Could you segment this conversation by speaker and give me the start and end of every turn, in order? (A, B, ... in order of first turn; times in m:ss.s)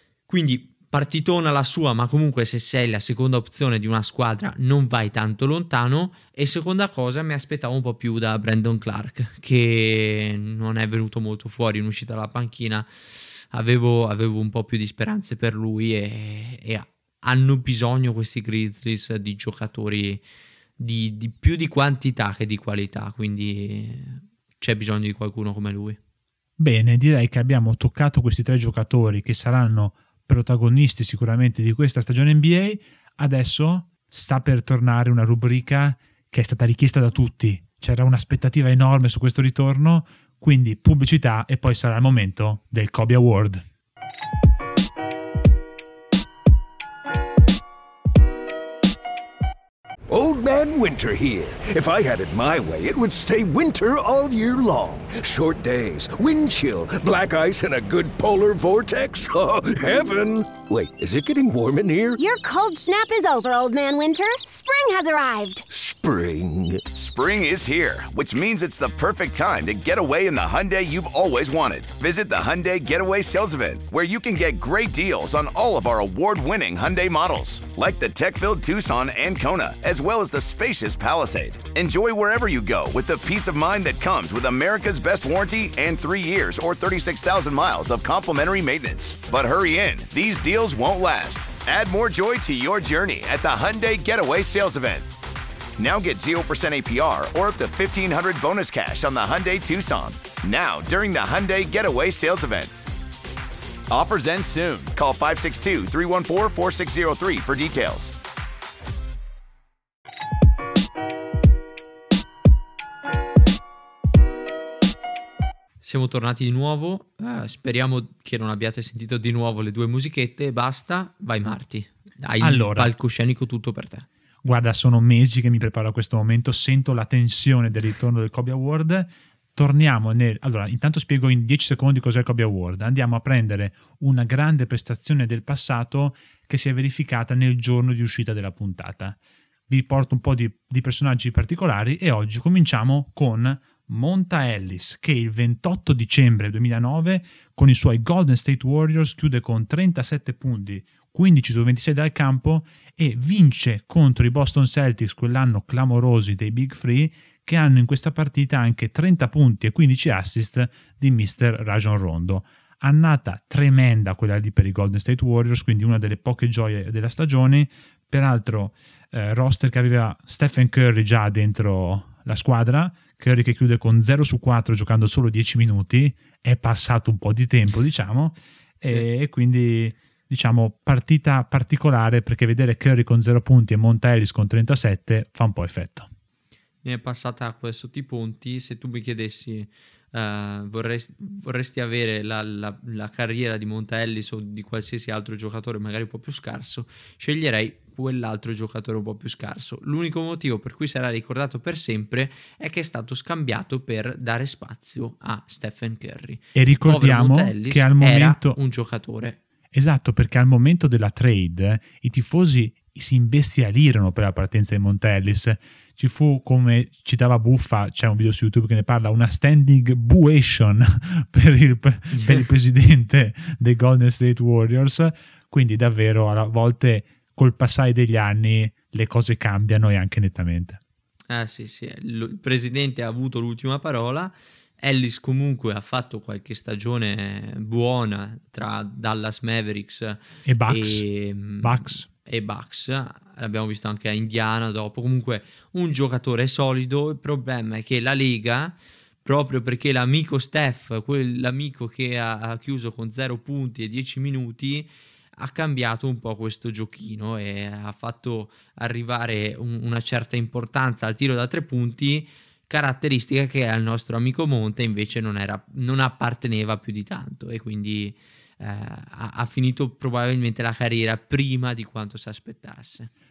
0:00.3-0:20.2 A
0:20.8-0:26.0 A
0:26.6-0:43.6 B
0:50.1-1:02.2 C
1:02.2-1:05.6 D
1:05.7-1:06.8 C
1:06.9-1:35.1 E
1:35.8-1:42.8 E
1:43.9-1:48.1 E
1:55.8-2:04.1 A
2:02.4-2:02.9 B
2:04.4-2:19.2 B
2:19.7-3:06.1 B
3:06.8-3:29.4 A
3:26.5-3:28.6 B
3:29.7-3:50.8 B
3:42.1-3:42.4 A
3:51.3-4:33.1 A
4:00.4-4:01.1 B
4:01.6-4:02.1 B